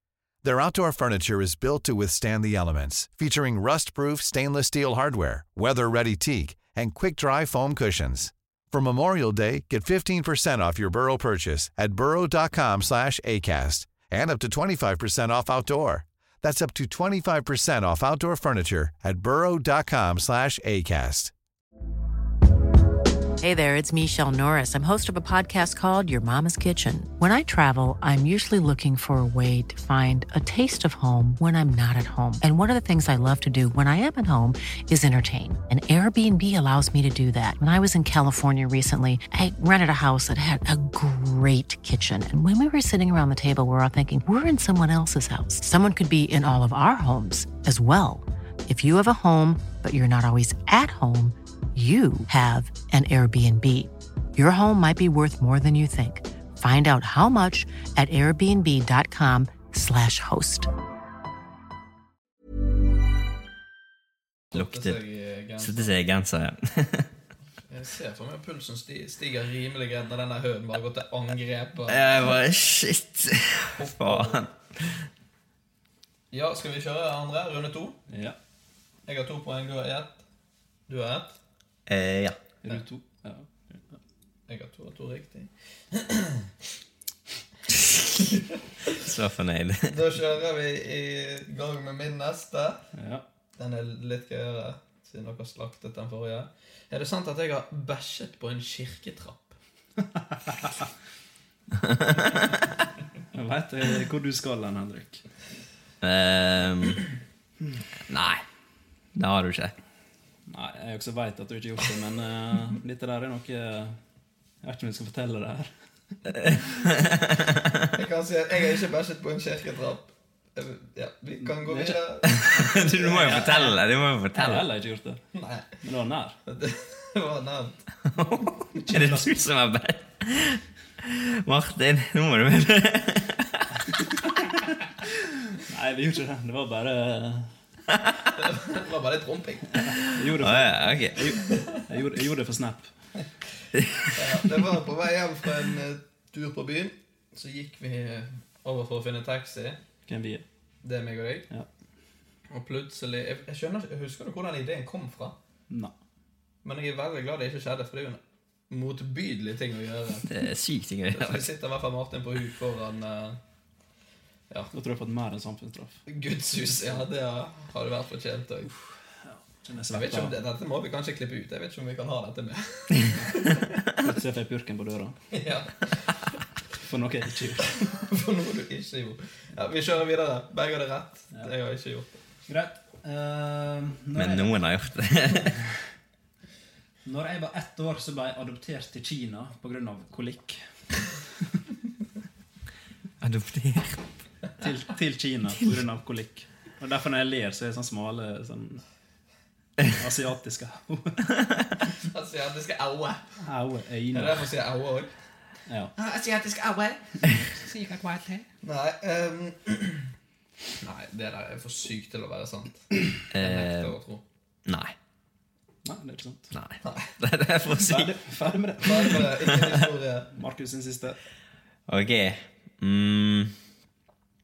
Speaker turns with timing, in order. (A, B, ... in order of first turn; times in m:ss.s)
0:00.4-0:21.3 A
0:23.4-1:00.7 B
1:04.5-1:05.9 C
1:04.5-1:05.0 D
1:05.6-1:07.1 D
1:07.7-1:12.1 C
1:11.9-1:15.0 D
1:13.8-1:14.4 C
1:16.3-1:18.0 C
1:18.1-1:18.4 E
1:19.1-1:20.2 C
1:20.9-1:21.4 C
1:21.9-1:22.4 D
1:22.6-1:24.0 E
1:24.5-1:26.5 C
1:28.9-1:29.9 D
1:29.9-1:32.8 C
1:33.0-1:33.2 E
1:33.6-1:39.6 C
1:40.1-1:40.7 E
1:41.8-1:42.5 D
1:43.3-1:45.2 E
1:46.0-1:47.0 D
1:48.1-1:48.4 D
1:49.2-1:49.7 D
1:50.5-1:54.0 E
1:54.6-1:55.7 E
1:57.9-2:03.7 C
2:01.4-2:03.5 E
2:02.3-2:04.7 D
2:04.3-2:05.2 E
2:05.3-2:05.8 C
2:05.8-2:06.4 E
2:06.5-2:07.8 C
2:08.2-2:13.7 D
2:08.8-2:09.4 E
2:13.9-2:14.6 E
2:15.5-2:17.5 E
2:18.4-2:19.9 C
2:19.8-2:22.9 E
2:20.3-2:21.3 D
2:21.5-2:21.8 C
2:23.8-2:24.1 D
2:24.2-2:29.8 C
2:30.1-2:30.4 E
2:30.8-2:31.5 C
2:32.5-2:35.4 C
2:36.6-2:40.3 C
2:40.3-2:41.5 D
2:41.1-2:43.4 C
2:44.7-2:46.0 E
2:46.1-2:48.7 C
2:48.6-2:50.4 E
2:49.9-2:53.6 C
2:54.0-2:55.2 E
2:55.3-2:56.1 C
2:56.8-2:57.8 E
2:57.8-3:02.2 C
3:02.5-3:04.6 E
3:04.2-3:05.6 D
3:07.1-3:10.7 E
3:13.2-3:14.0 D
3:14.6-3:18.8 E
3:19.9-3:21.7 E
3:22.1-3:23.2 C
3:23.4-3:24.5 E
3:24.1-3:25.1 C
3:26.0-3:27.0 C
3:27.3-3:28.5 E
3:28.6-3:30.1 C
3:30.8-3:34.2 C
3:33.3-3:34.0 D
3:34.7-3:34.9 D
3:35.8-3:36.5 E
3:36.5-3:38.1 D
3:36.8-3:37.1 C
3:37.7-3:39.3 E
3:38.8-3:40.3 C
3:40.3-3:41.2 E
3:41.9-3:43.6 D